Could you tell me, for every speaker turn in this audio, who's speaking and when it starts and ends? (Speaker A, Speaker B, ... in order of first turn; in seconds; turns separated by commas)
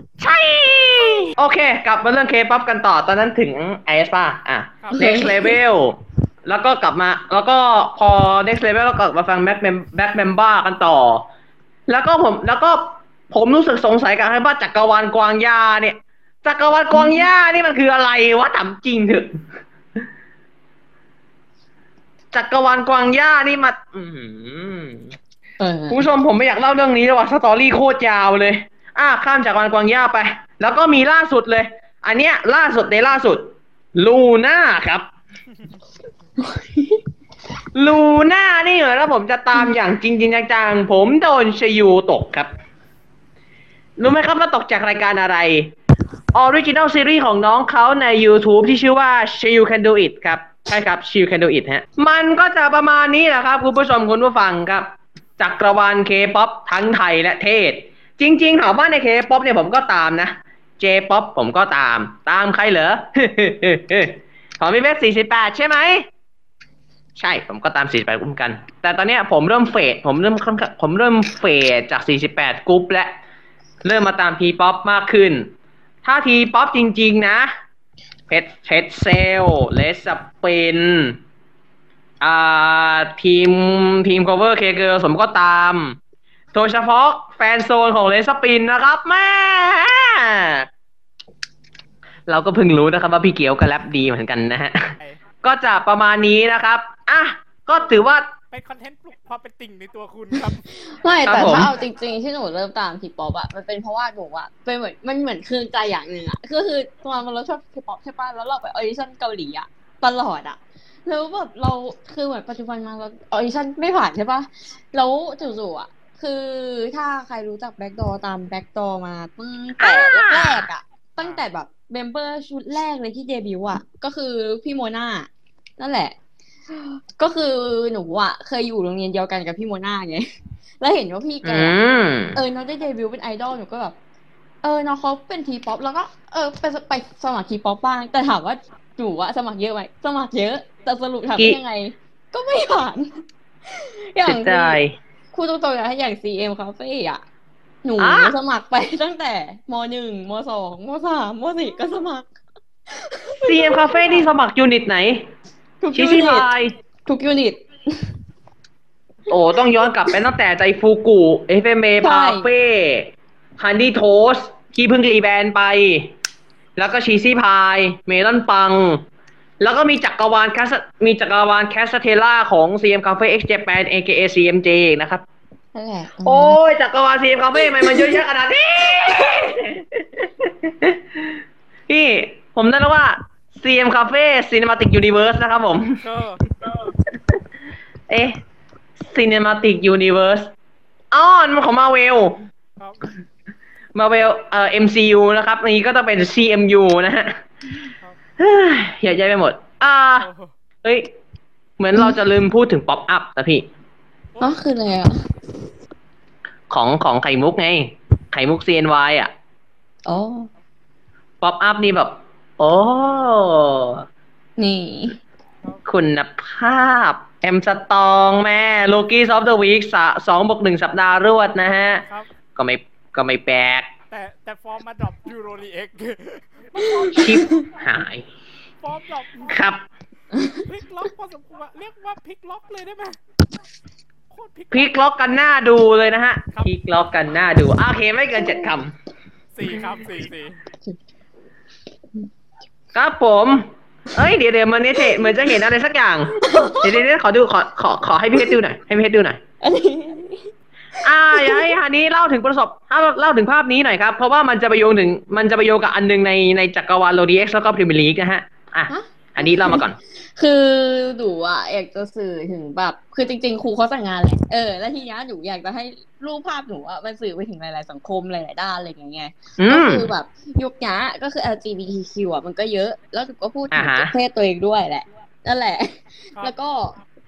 Speaker A: 0.2-11.3, Speaker B: 4.8-5.2, Speaker C: 5.0-5.6, Speaker A: 11.9-19.4, Speaker A: 22.3-25.2, Speaker C: 25.6-26.0, Speaker A: 25.9-35.1, Speaker C: 36.4-37.0, Speaker A: 37.8-42.5, Speaker A: 44.0-45.7, Speaker A: 46.3-66.1, Speaker A: 67.2-73.2, Speaker A: 73.8-75.5, Speaker A: 76.0-77.5, Speaker A: 78.3-81.2, Speaker A: 82.2-86.0, Speaker A: 86.5-90.7, Speaker A: 92.3-98.3, Speaker B: 98.5-100.6, Speaker C: 100.7-126.2, Speaker A: 101.2-101.7, Speaker A: 119.8-120.7, Speaker C: 126.7-131.8, Speaker A: 131.4-132.4, Speaker C: 132.3-134.0, Speaker C: 134.6-143.1, Speaker C: 143.7-144.8, Speaker A: 144.2-145.0, Speaker C: 145.3-147.2, Speaker C: 147.8-152.3, Speaker A: 148.0-148.4, Speaker C: 152.9-154.1, Speaker A: 153.4-155.3, Speaker C: 155.8-156.5, Speaker A: 155.9-156.7, Speaker C: 157.1-158.1, Speaker A: 159.3-166.1, Speaker C: 162.0-162.5, Speaker A: 166.8-169.0, Speaker A: 169.6-175.2, Speaker C: 175.8-176.6, Speaker A: 176.2-186.0, Speaker C: 177.7-178.2, Speaker B: 186.0-186.4, Speaker A: 186.9-187.3, Speaker A: 188.1-188.4, Speaker A: 189.0-190.5, Speaker A: 191.1-192.4, Speaker B: 192.8-193.1, Speaker A: 193.9-197.4, Speaker A: 198.4-200.3, Speaker B: 200.2-200.5, Speaker A: 200.8-201.1, Speaker A: 201.8-203.7, Speaker C: 204.4-205.2, Speaker A: 206.7-209.3, Speaker C: 210.1-210.5, Speaker A: 211.4-214.1, Speaker C: 214.6-215.2, Speaker A: 215.8-223.9, Speaker B: 224.1-227.5, Speaker A: 227.1-228.3, Speaker C: 227.3-227.6, Speaker B: 228.8-229.6, Speaker A: 229.5-229.8, Speaker B: 230.5-233.2, Speaker B: 234.3-235.0, Speaker A: 234.7-238.9, Speaker B: 239.6-240.6, Speaker A: 242.9-249.4, Speaker C: 246.4-247.0, Speaker C: 249.6-250.5, Speaker A: 251.0-260.0, Speaker C: 251.3-251.8, Speaker C: 258.9-259.9, Speaker C: 260.4-277.0, Speaker A: 269.6-270.1, Speaker A: 273.7-274.1